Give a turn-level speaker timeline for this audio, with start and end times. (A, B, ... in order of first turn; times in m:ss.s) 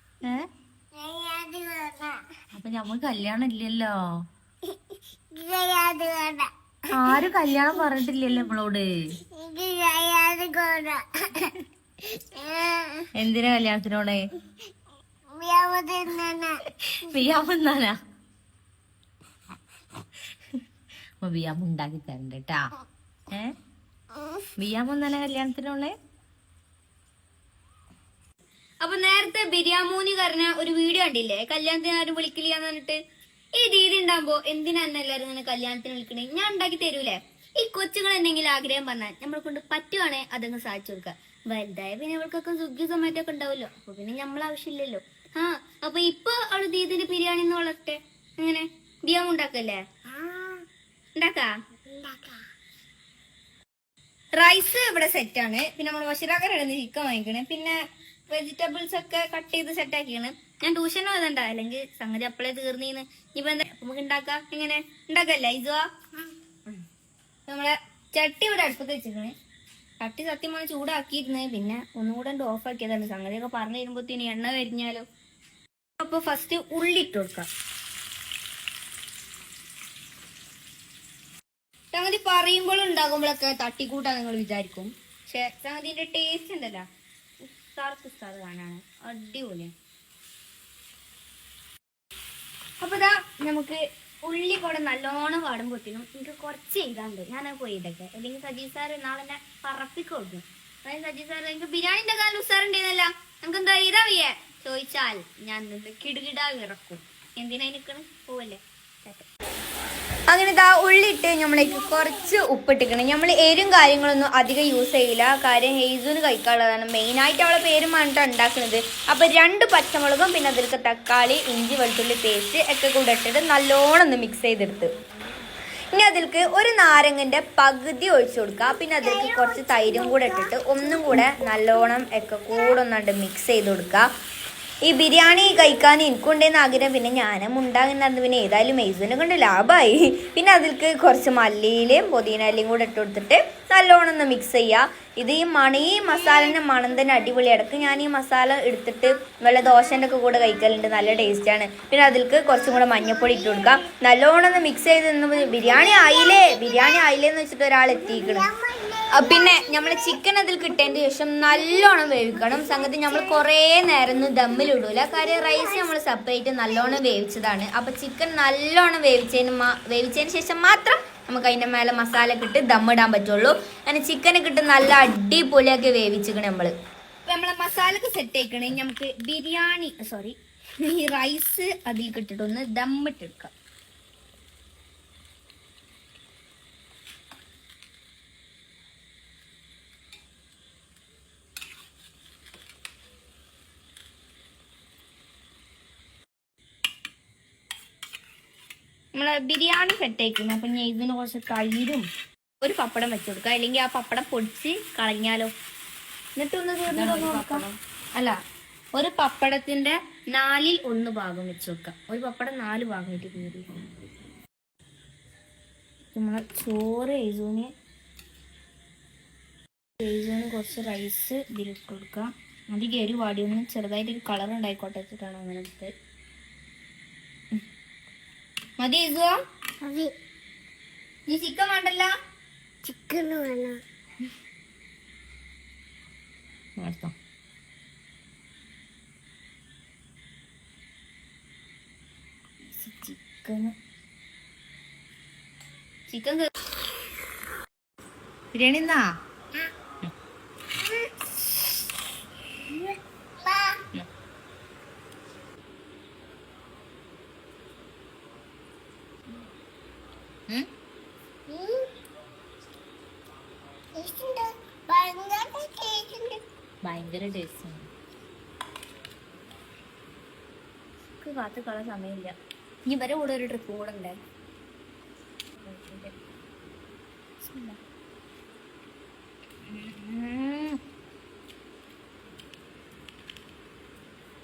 0:01.0-0:02.2 A
0:02.5-0:04.0 B
0:05.4-0:06.5 A
0:06.9-0:09.2 B
0:09.3-0:11.5 A
0:12.3-0:13.0 A
0:13.2-0:14.3 B
0:15.3-0:16.6 A
0:16.8-0:18.0 B
0:21.2-0:22.7 B
0:24.6-0:25.9 B
0:28.8-0:33.0 C
0:33.6-0:49.8 C
0:50.1-0:50.6 A
0:51.2-0:51.5 C
0:51.9-0:52.4 A
0:54.3-0:57.8 C
0:58.3-1:05.8 C
1:07.5-1:09.3 C
1:10.0-1:15.0 C
1:16.0-1:17.5 C
1:21.9-1:26.8 C
1:27.4-1:29.7 C
1:32.8-1:49.2 C
1:50.3-2:04.8 C
2:05.9-2:14.0 C
2:09.0-2:11.4 A
2:12.5-2:12.8 A
2:14.9-2:38.5 C
2:32.7-2:33.9 A
2:35.3-2:37.1 A
2:37.9-2:40.2 A
2:39.1-2:56.7 C
2:41.6-2:43.4 A
2:45.0-2:45.9 A
2:57.3-3:03.5 C
3:19.1-3:22.0 C
3:22.6-3:25.5 C
3:26.4-3:27.6 C
3:26.9-3:27.8 B
3:29.0-3:33.7 C
3:36.1-3:37.7 C
3:40.0-3:45.9 C
3:48.8-3:49.3 C
3:49.8-3:50.1 A
3:51.3-3:52.1 C
3:52.8-3:53.8 A
3:56.8-3:57.1 B
4:02.6-4:03.7 C
4:06.1-4:06.5 C
4:08.5-4:09.0 B
4:12.7-4:13.8 A
4:21.5-4:21.8 A
4:24.0-4:26.4 A
4:26.8-4:27.8 B
4:31.2-4:32.3 C
4:32.9-4:34.1 C
4:35.6-4:36.1 C
4:37.4-4:37.8 C
4:39.7-4:40.7 C